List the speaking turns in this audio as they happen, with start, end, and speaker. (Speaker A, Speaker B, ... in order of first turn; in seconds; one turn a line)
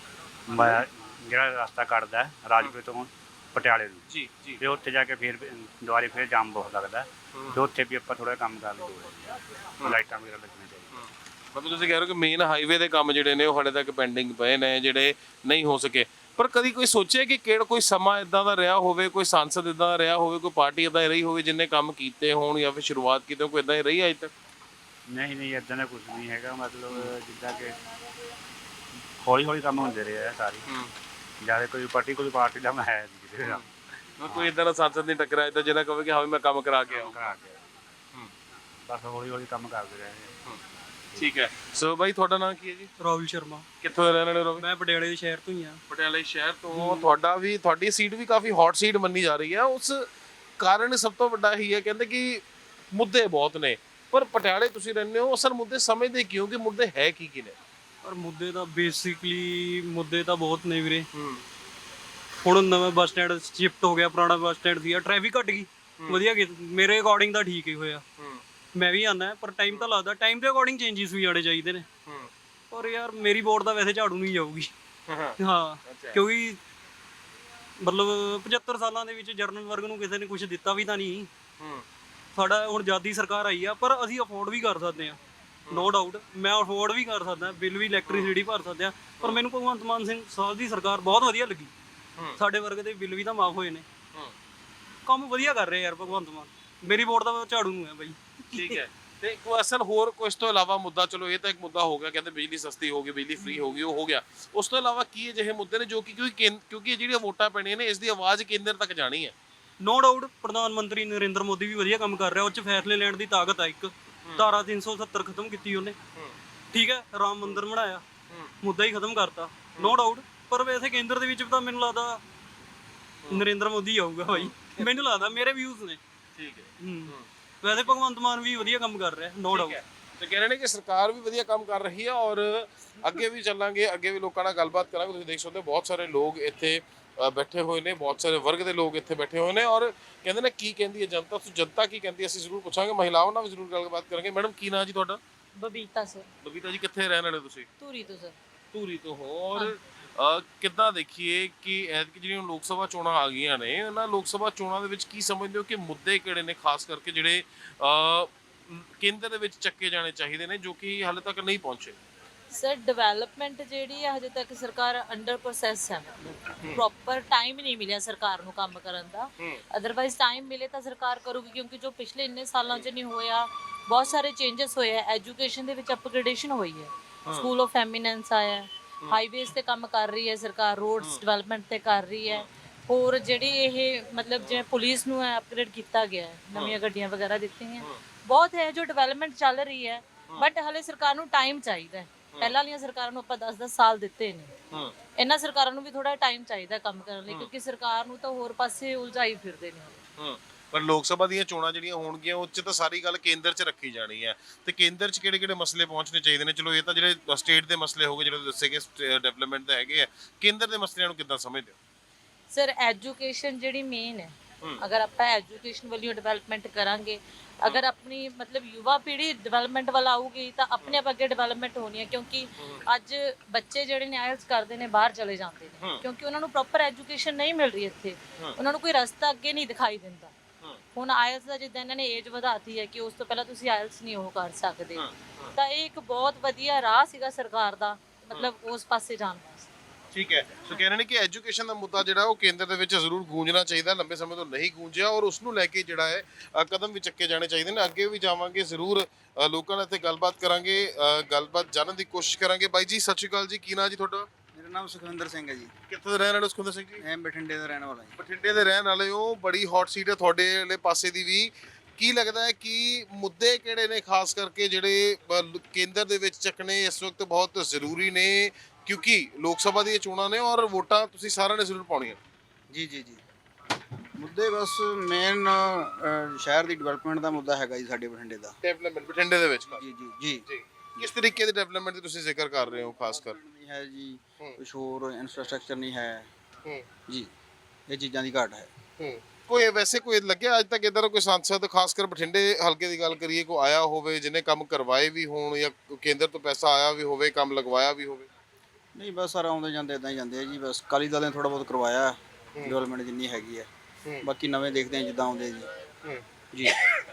Speaker A: 0.5-4.0
Speaker B: 4.1-4.6
Speaker A: 4.6-11.0
Speaker B: 10.9-24.3
Speaker A: 25.1-27.7
Speaker A: 29.2-30.7
Speaker A: 31.4-33.6
Speaker B: 34.2-37.2
Speaker A: 36.9-37.7
Speaker A: 38.9-40.3
Speaker B: 41.1-42.9
Speaker C: 43.0-43.6
Speaker B: 43.8-44.6
Speaker C: 44.6-45.8
Speaker B: 45.9-50.1
Speaker C: 46.7-47.1
Speaker B: 50.6-57.5
Speaker C: 58.0-61.1
Speaker B: 61.1-61.4
Speaker C: 62.4-68.0
Speaker C: 68.8-71.8
Speaker C: 72.7-74.7
Speaker B: 75.1-76.2
Speaker C: 75.4-76.6
Speaker C: 77.8-81.3
Speaker C: 82.3-91.7
Speaker B: 88.0-88.3
Speaker C: 92.3-93.8
Speaker C: 95.0-98.8
Speaker B: 98.5-109.3
Speaker C: 109.8-116.0
Speaker C: 116.7-118.0
Speaker C: 118.6-122.2
Speaker C: 123.3-126.0
Speaker B: 124.3-124.8
Speaker B: 126.3-127.2
Speaker C: 126.8-129.8
Speaker B: 129.5-145.2
Speaker D: 145.6-146.3
Speaker B: 146.4-147.7
Speaker D: 147.8-148.3
Speaker B: 148.7-162.0
Speaker D: 162.5-194.5
Speaker D: 195.2-200.0
Speaker B: 200.2-211.8
Speaker D: 212.5-230.3
Speaker B: 222.6-222.8
Speaker D: 230.9-239.7
Speaker B: 234.9-235.5
Speaker B: 240.1-254.3
Speaker E: 254.5-255.7
Speaker B: 255.9-257.0
Speaker E: 257.0-258.1
Speaker B: 258.2-272.2
Speaker E: 272.7-273.2
Speaker E: 274.1-278.6
Speaker B: 278.6-279.8
Speaker E: 279.7-280.4
Speaker B: 280.4-283.4
Speaker E: 283.1-286.3
Speaker E: 287.9-288.7
Speaker B: 289.0-298.3
Speaker E: 298.9-303.7
Speaker E: 304.2-305.7